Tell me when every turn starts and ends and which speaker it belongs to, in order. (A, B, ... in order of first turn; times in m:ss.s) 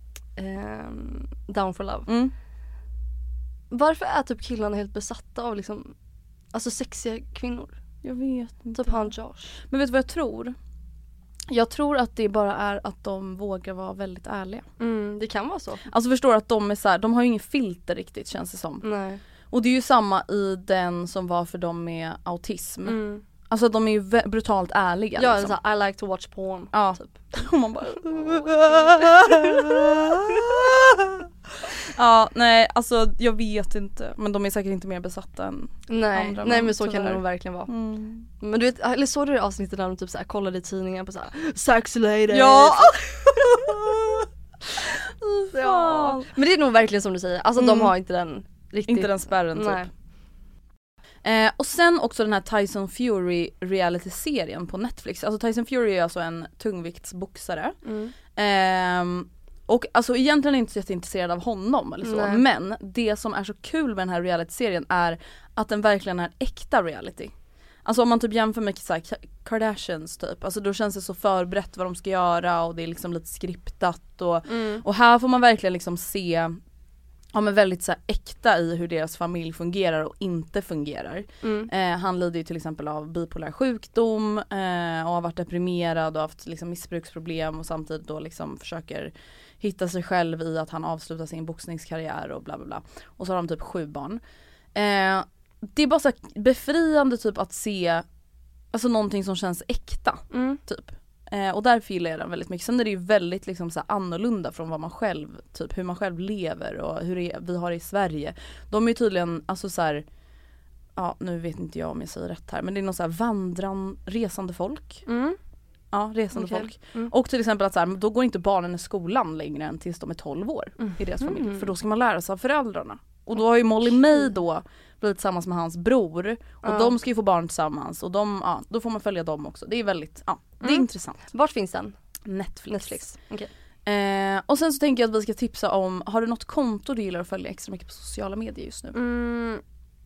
0:00.4-0:02.1 A
0:02.1-0:02.3 B
0:03.7-0:05.9 A
0:06.5-0:07.7 A
0:08.0-0:10.6 B
0:08.7-0:09.6 A
0:11.5-0:14.6 B
0:14.8-0:15.8 A
0:15.9-0:18.8 B
0:18.8-0:19.2 A
0:19.5-0:25.6 B
0:22.8-0:23.2 A
0:25.2-0:27.3 A
0:26.7-0:31.3 B
0:28.9-0:30.4 A
0:31.9-0:38.3 B
0:35.9-0:37.7 A
0:38.4-0:43.7 A
0:42.3-0:44.2 B
0:45.2-0:46.2 B
0:45.5-0:49.9 A
0:47.6-0:47.9 B
0:48.9-0:49.8 B
0:51.2-0:57.8 B
0:57.8-0:58.1 A
0:58.3-1:07.3 B
1:02.0-1:02.4 A
1:07.8-1:16.6 B
1:14.5-1:14.8 A
1:17.3-1:34.2 B
1:21.4-1:21.7 A
1:34.7-1:38.0 B
1:38.7-1:50.0 B
1:40.3-1:40.6 A
1:51.0-1:55.0 B
1:55.1-1:55.4 A
1:55.9-2:11.2 B
1:56.3-1:57.1 A
2:00.8-2:01.7 A
2:03.9-2:04.3 A
2:06.6-2:06.9 A
2:10.6-2:12.0 A
2:12.2-2:13.1 B
2:12.7-2:13.5 A
2:13.8-2:19.0 B
2:18.9-2:19.6 A